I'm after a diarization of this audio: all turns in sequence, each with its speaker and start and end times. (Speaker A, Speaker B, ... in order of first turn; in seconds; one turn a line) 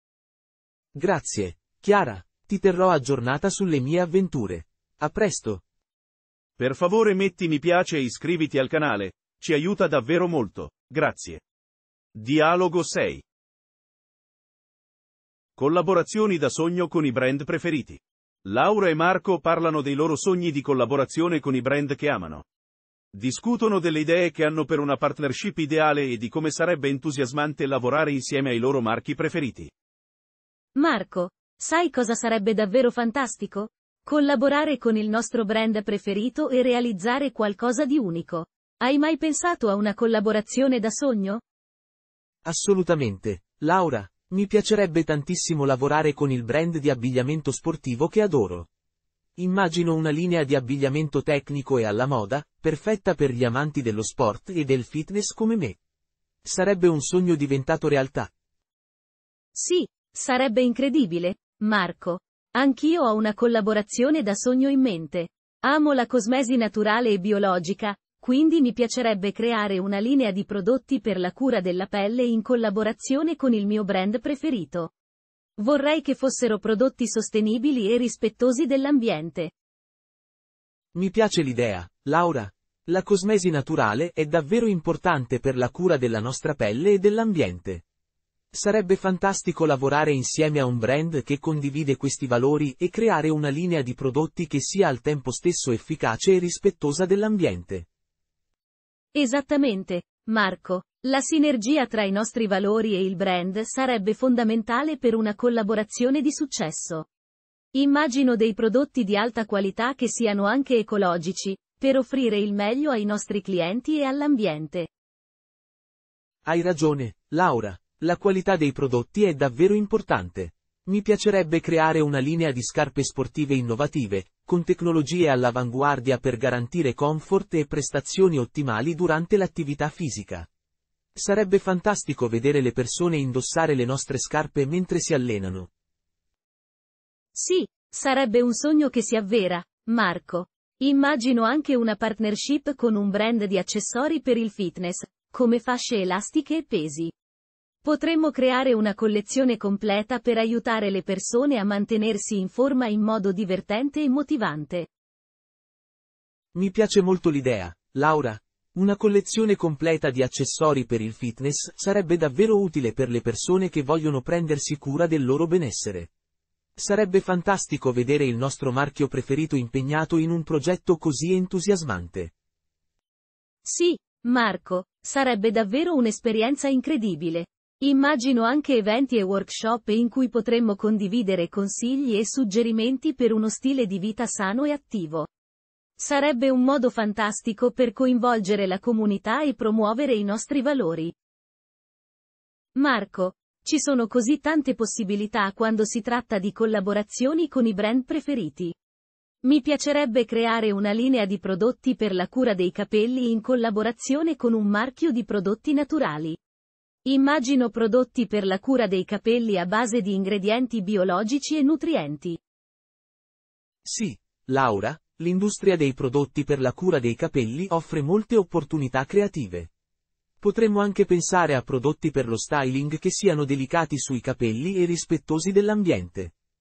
Speaker A: 0.9-5.6
Speaker B: 6.6-11.4
Speaker B: 12.1-13.2
Speaker B: 15.6-22.4
Speaker B: 23.1-29.7
Speaker C: 30.7-41.4
Speaker A: 42.4-48.7
Speaker A: 49.4-55.8
Speaker A: 56.4-58.3
Speaker C: 59.5-74.9
Speaker C: 75.6-79.5
Speaker A: 80.9-87.8
Speaker A: 88.5-97.9
Speaker C: 99.1-107.1
Speaker C: 107.7-114.9
Speaker A: 116.4-130.5
Speaker A: 131.1-135.7
Speaker C: 137.3-147.1
Speaker C: 147.8-154.9
Speaker A: 156.5-166.1
Speaker A: 166.8-172.3
Speaker C: 173.6-185.3
Speaker C: 186.0-191.1
Speaker C: 192.7-198.7
Speaker C: 199.4-206.4
Speaker C: 207.1-212.4
Speaker A: 213.8-219.7
Speaker A: 220.4-226.3